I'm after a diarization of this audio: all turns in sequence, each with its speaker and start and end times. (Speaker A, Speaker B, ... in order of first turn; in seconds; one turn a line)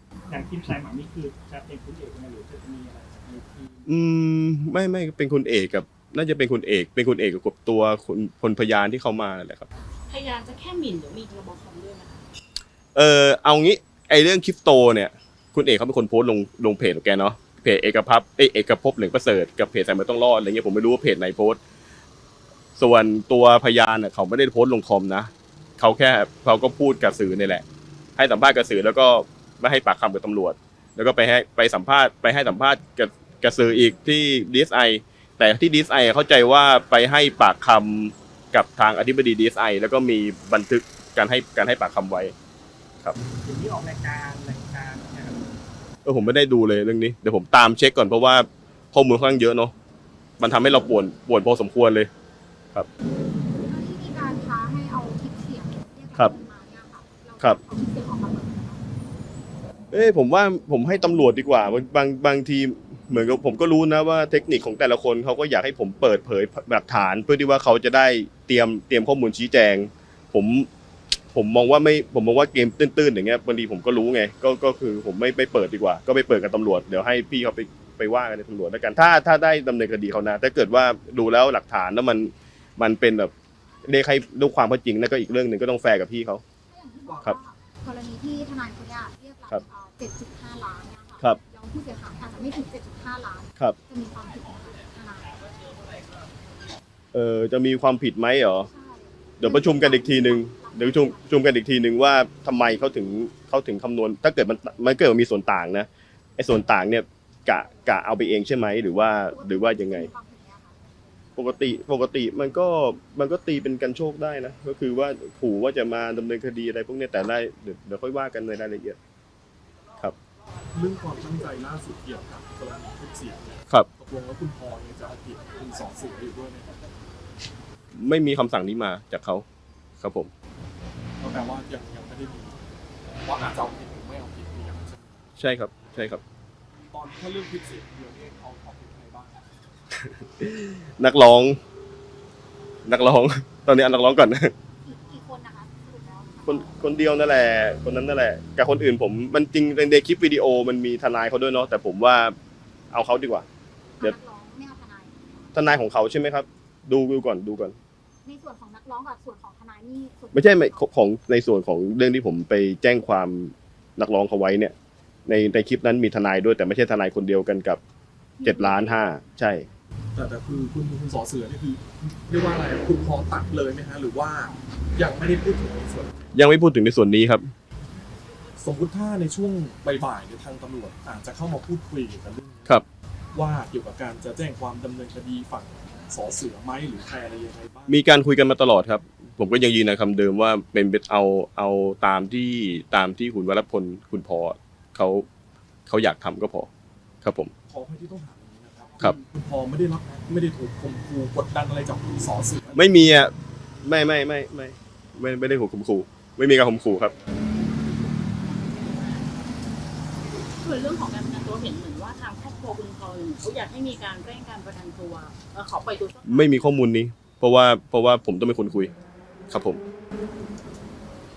Speaker A: 0.3-3.9
Speaker B: 3.9-9.7
Speaker C: 10.1-12.2
Speaker B: 12.9-21.6
Speaker B: 22.8-27.6
Speaker B: 28.2-42.3
Speaker A: 43.4-45.5
Speaker B: 46.0-49.7
Speaker B: 50.4-52.1
Speaker D: 53.7-58.8
Speaker B: 59.9-70.7
Speaker B: 71.3-83.3
Speaker B: 83.8-86.4
Speaker D: 86.7-95.4
Speaker E: 87.0-87.3
Speaker B: 97.1-98.7
Speaker D: 98.7-101.5
Speaker B: 99.4-110.1
Speaker D: 109.3-110.8
Speaker B: 111.4-119.0
Speaker E: 120.7-126.7
Speaker B: 128.0-129.4
Speaker B: 130.0-130.3
Speaker E: 131.2-132.6
Speaker E: 133.2-135.2
Speaker B: 135.4-136.2
Speaker E: 136.9-139.4
Speaker B: 140.0-141.6
Speaker B: 142.8-144.5
Speaker D: 144.8-146.8
Speaker B: 146.4-152.3
Speaker B: 152.9-153.4
Speaker D: 154.0-155.4
Speaker B: 155.5-157.8
Speaker D: 158.2-160.8
Speaker B: 160.3-164.7
Speaker B: 165.3-167.8
Speaker D: 168.4-169.0
Speaker B: 168.4-169.7
Speaker E: 170.1-176.2
Speaker B: 176.3-177.5
Speaker E: 178.6-182.8
Speaker E: 183.3-188.0
Speaker B: 187.9-195.2
Speaker B: 195.9-196.7
Speaker B: 197.2-197.5
Speaker E: 197.7-202.9
Speaker B: 202.7-203.3
Speaker B: 203.8-207.1
Speaker C: 207.8-209.2
Speaker C: 210.6-216.7
Speaker B: 216.2-218.9
Speaker B: 219.5-219.8